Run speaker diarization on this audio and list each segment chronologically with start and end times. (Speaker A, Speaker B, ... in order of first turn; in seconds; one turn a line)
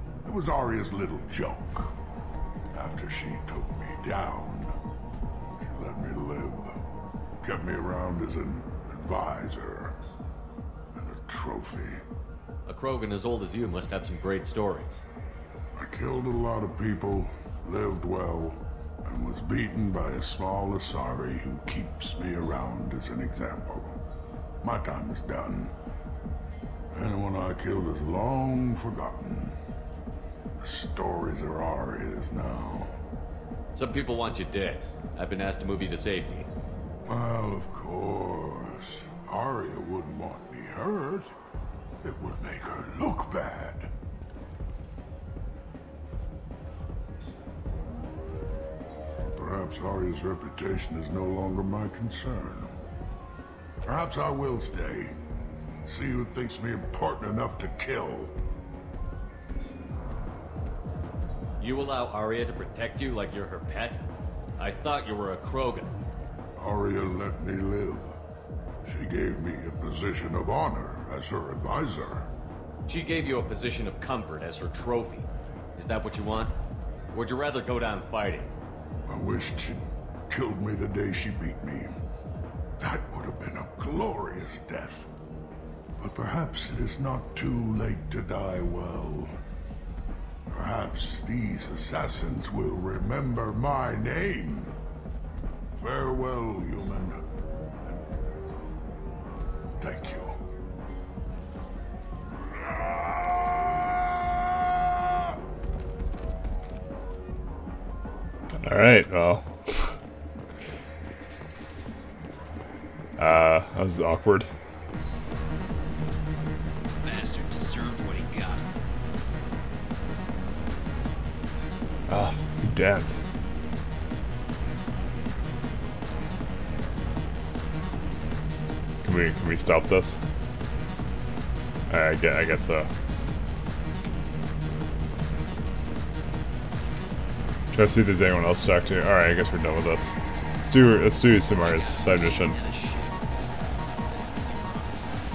Speaker A: 0.2-1.9
Speaker A: 2.7-4.7
Speaker A: 5.6-6.8
Speaker A: 7.4-9.9
Speaker A: 10.9-12.0
Speaker B: 12.7-15.0
Speaker A: 15.8-23.9
Speaker A: 24.6-25.7
Speaker A: 26.9-29.6
Speaker A: 30.6-32.9
Speaker B: 33.7-36.5
Speaker A: 37.0-41.3
Speaker A: 42.0-43.9
Speaker A: 49.2-52.7
Speaker A: 53.8-55.1
Speaker A: 55.8-58.3
Speaker B: 61.6-64.0
Speaker B: 64.6-65.9
Speaker A: 66.6-68.1
Speaker A: 68.8-72.3
Speaker B: 72.9-76.5
Speaker B: 77.1-78.5
Speaker A: 79.1-82.0
Speaker A: 82.8-85.1
Speaker A: 86.0-89.3
Speaker A: 90.5-94.7
Speaker A: 95.8-97.2
Speaker A: 97.8-98.2
Speaker A: 99.8-100.4
Speaker A: 102.6-103.5
Speaker C: 108.6-109.9
Speaker C: 113.2-114.5
Speaker D: 117.0-118.7
Speaker C: 122.1-123.2
Speaker C: 129.0-130.2
Speaker C: 131.9-132.9
Speaker C: 137.7-142.6
Speaker D: 141.5-143.2
Speaker D: 144.1-145.0